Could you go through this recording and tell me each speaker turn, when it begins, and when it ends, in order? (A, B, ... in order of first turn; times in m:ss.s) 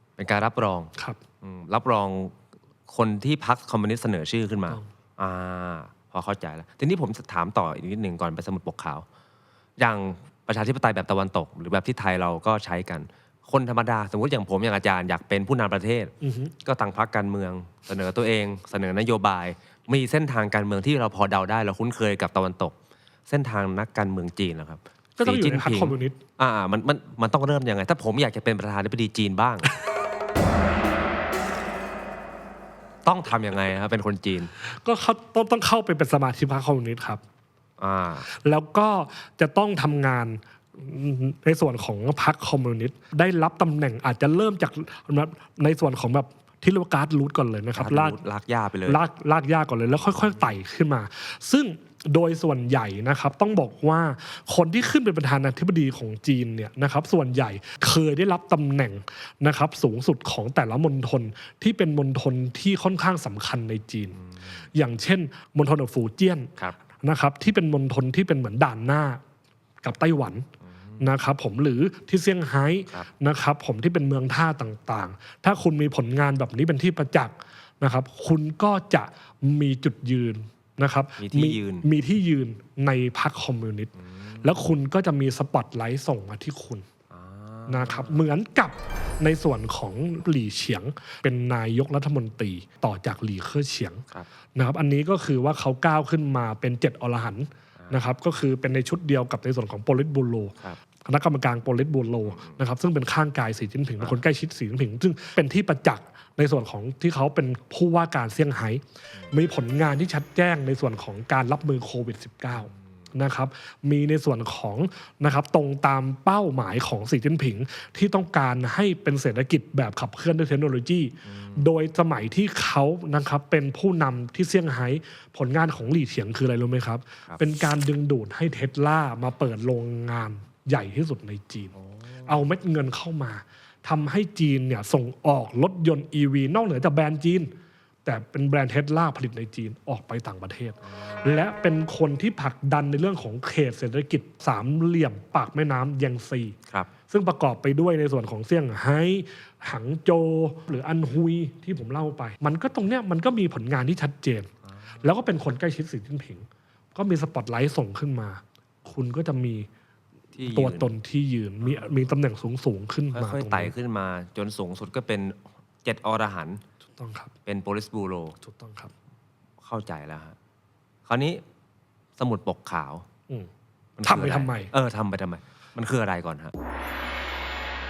0:00.2-0:02.3 A
0:02.9-0:09.0 A
0:09.8-0:16.1 A
0:16.2-0:16.5 B
0:16.6-0:22.8 A
0:23.3-0:29.7 A
0:25.2-0:26.2 B
0:33.0-0:34.5 A
0:34.6-0:37.2 B
0:37.8-0:38.3 A
0:38.3-0:48.2 B
0:47.8-0:49.0 A
0:48.9-1:04.2 B
1:04.7-1:09.2 B
1:09.8-1:10.5 B
1:11.0-1:23.9 B
1:21.2-1:21.9 A
1:24.0-1:24.6 A
1:24.4-1:26.9 B
1:27.1-1:28.2 A
1:27.7-1:34.0 B
1:34.6-2:11.7 B
1:42.3-1:42.6 A
2:01.3-2:01.6 A
2:11.8-2:12.3 A
2:12.2-2:17.5 B
2:18.0-2:26.6 B
2:20.9-2:21.2 A
2:27.1-2:34.5 B
2:35.0-2:39.7 B
2:40.3-2:40.9 A
2:40.4-2:43.7 B
2:43.1-2:46.6 A
2:47.0-2:47.3 B
2:47.5-2:48.4 A
2:48.4-2:48.9 B
2:49.6-2:50.4 A
2:51.1-2:51.4 A
2:52.2-2:53.0 A
2:54.0-2:56.5 A
2:54.1-2:54.7 B